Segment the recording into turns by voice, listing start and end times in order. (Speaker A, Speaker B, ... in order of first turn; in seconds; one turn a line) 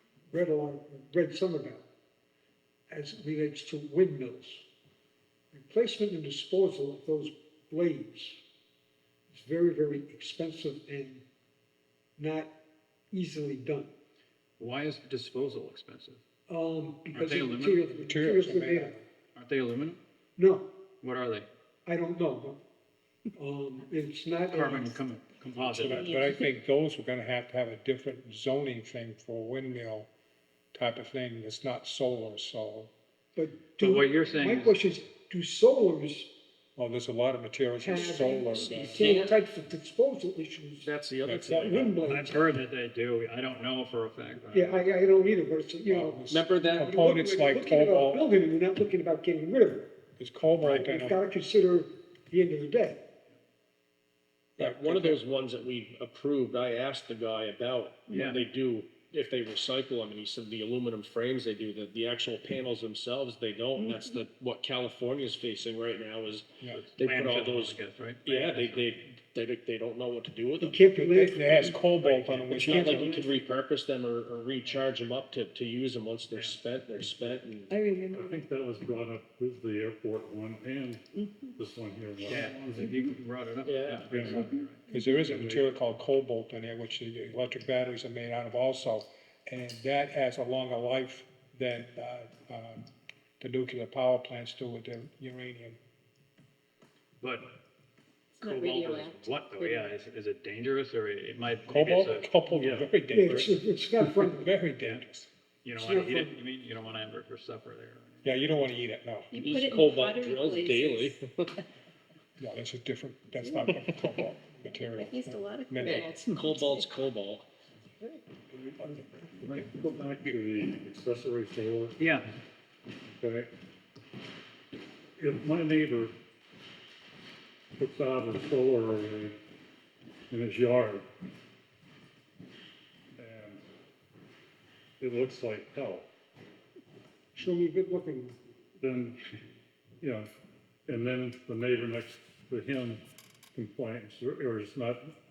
Speaker A: 0.3-1.9
Speaker A: 2.9-4.7
Speaker A: 5.5-8.4
Speaker A: 9.3-11.2
Speaker A: 12.2-12.5
Speaker A: 13.1-13.9
Speaker B: 14.6-16.2
Speaker A: 16.5-18.9
Speaker B: 17.1-17.9
Speaker C: 18.0-19.1
Speaker B: 19.4-20.0
Speaker A: 20.4-20.7
Speaker B: 21.0-21.5
Speaker A: 21.9-22.6
Speaker A: 23.4-25.0
Speaker B: 24.5-26.2
Speaker C: 25.7-30.1
Speaker D: 25.9-26.4
Speaker C: 30.7-32.9
Speaker A: 33.4-36.3
Speaker B: 33.8-34.8
Speaker C: 36.8-39.1
Speaker A: 37.8-40.9
Speaker E: 38.5-39.4
Speaker E: 40.8-42.0
Speaker C: 41.2-41.8
Speaker A: 41.6-42.3
Speaker B: 42.0-44.8
Speaker A: 44.5-50.0
Speaker C: 45.9-48.2
Speaker E: 46.3-47.0
Speaker C: 50.2-51.2
Speaker A: 50.6-53.0
Speaker E: 54.6-70.8
Speaker C: 54.6-55.2
Speaker B: 58.1-58.5
Speaker B: 66.7-69.0
Speaker A: 70.6-71.8
Speaker C: 70.9-73.2
Speaker B: 72.0-73.4
Speaker E: 72.5-77.9
Speaker B: 76.3-76.6
Speaker D: 77.7-78.2
Speaker F: 78.1-81.1
Speaker F: 81.6-83.0
Speaker B: 82.2-84.8
Speaker E: 83.6-84.4
Speaker F: 84.1-84.5
Speaker C: 84.9-92.8
Speaker F: 85.2-85.7
Speaker C: 93.4-95.8
Speaker B: 97.2-97.5
Speaker D: 98.3-99.9
Speaker B: 98.4-102.8
Speaker C: 101.7-105.3
Speaker A: 103.1-104.6
Speaker B: 105.6-108.6
Speaker A: 105.8-106.3
Speaker C: 108.2-109.3
Speaker D: 109.3-111.2
Speaker E: 109.3-111.6
Speaker C: 112.4-116.2
Speaker D: 114.9-116.9
Speaker E: 115.8-117.5
Speaker F: 119.4-122.0
Speaker B: 122.0-122.3
Speaker F: 123.2-123.5
Speaker F: 125.2-126.1
Speaker F: 127.8-129.4
Speaker F: 130.3-131.0
Speaker F: 133.2-133.6
Speaker F: 135.0-136.1
Speaker A: 137.3-138.4
Speaker F: 138.8-139.2
Speaker F: 140.0-140.3
Speaker F: 140.9-143.0
Speaker F: 143.5-145.1